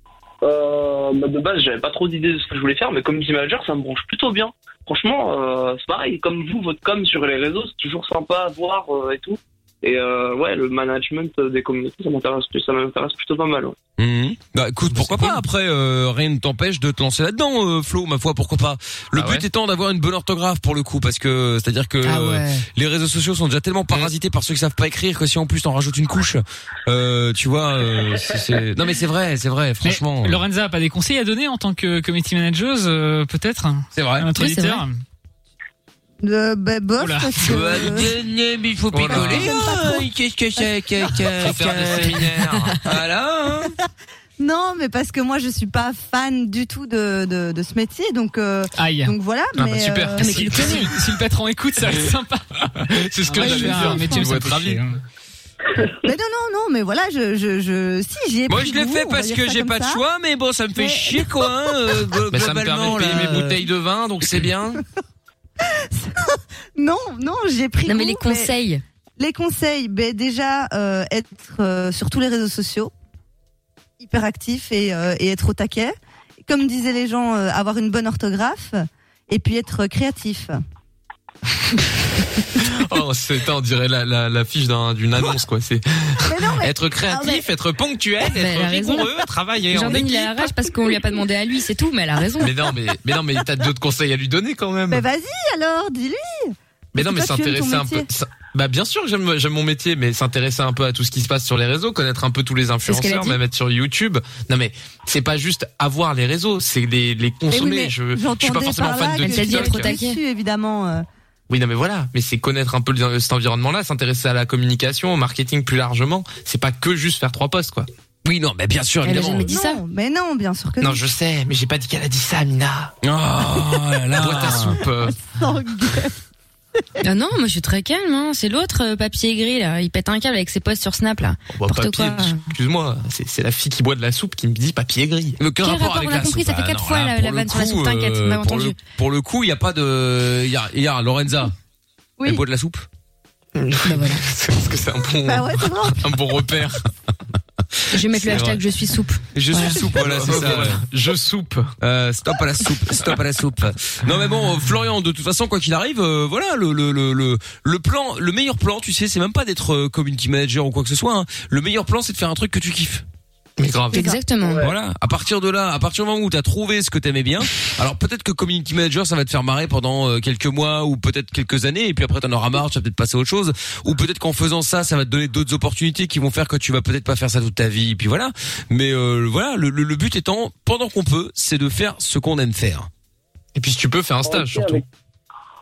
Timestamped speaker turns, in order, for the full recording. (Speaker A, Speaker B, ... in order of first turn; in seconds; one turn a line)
Speaker A: 0.4-13.8
Speaker B: 14.0-30.4
Speaker C: 14.9-15.4
Speaker C: 19.1-19.4
Speaker D: 22.0-22.6
Speaker E: 29.8-35.0
Speaker B: 33.9-34.3
Speaker D: 34.4-34.8
Speaker F: 36.2-38.2
Speaker E: 37.0-37.9
Speaker B: 37.4-43.8
Speaker C: 38.9-39.6
Speaker F: 39.0-40.6
Speaker C: 41.4-42.8
Speaker F: 44.4-50.5
Speaker E: 48.8-49.1
Speaker C: 49.6-50.8
Speaker D: 50.2-50.9
Speaker E: 50.5-52.5
Speaker C: 52.9-54.8
Speaker E: 53.3-55.0
Speaker F: 53.3-54.3
Speaker F: 56.0-60.0
Speaker B: 58.5-63.6
Speaker F: 60.8-62.0
Speaker C: 62.3-64.6
Speaker B: 64.2-64.8
Speaker F: 65.9-68.5
Speaker D: 67.8-68.8
Speaker F: 69.2-72.9
Speaker F: 74.0-80.6
Speaker C: 82.6-90.5
Speaker F: 86.2-87.5
Speaker D: 88.3-89.1
Speaker D: 89.7-92.5
Speaker C: 92.4-95.0
Speaker F: 94.9-98.1
Speaker C: 96.9-109.9
Speaker D: 102.8-103.4
Speaker F: 107.5-111.0
Speaker D: 109.2-110.2
Speaker C: 111.5-117.9
Speaker B: 118.2-119.5
Speaker D: 119.0-119.8
Speaker F: 119.3-121.0
Speaker C: 120.8-122.9
Speaker B: 123.0-124.8
Speaker C: 124.2-125.2
Speaker F: 125.0-126.2
Speaker D: 127.0-132.4
Speaker C: 131.5-135.4
Speaker B: 135.4-141.5
Speaker D: 135.6-138.8
Speaker B: 142.2-142.9
Speaker C: 143.6-146.8
Speaker D: 143.8-144.2
Speaker F: 145.2-146.2
Speaker D: 147.9-149.8
Speaker B: 148.2-148.6
Speaker B: 149.3-150.8
Speaker C: 149.5-151.7
Speaker B: 151.8-163.0
Speaker C: 163.6-164.0
Speaker D: 163.9-164.7
Speaker F: 163.9-164.2
Speaker B: 164.6-182.9
Speaker C: 183.6-184.8
Speaker A: 184.2-184.8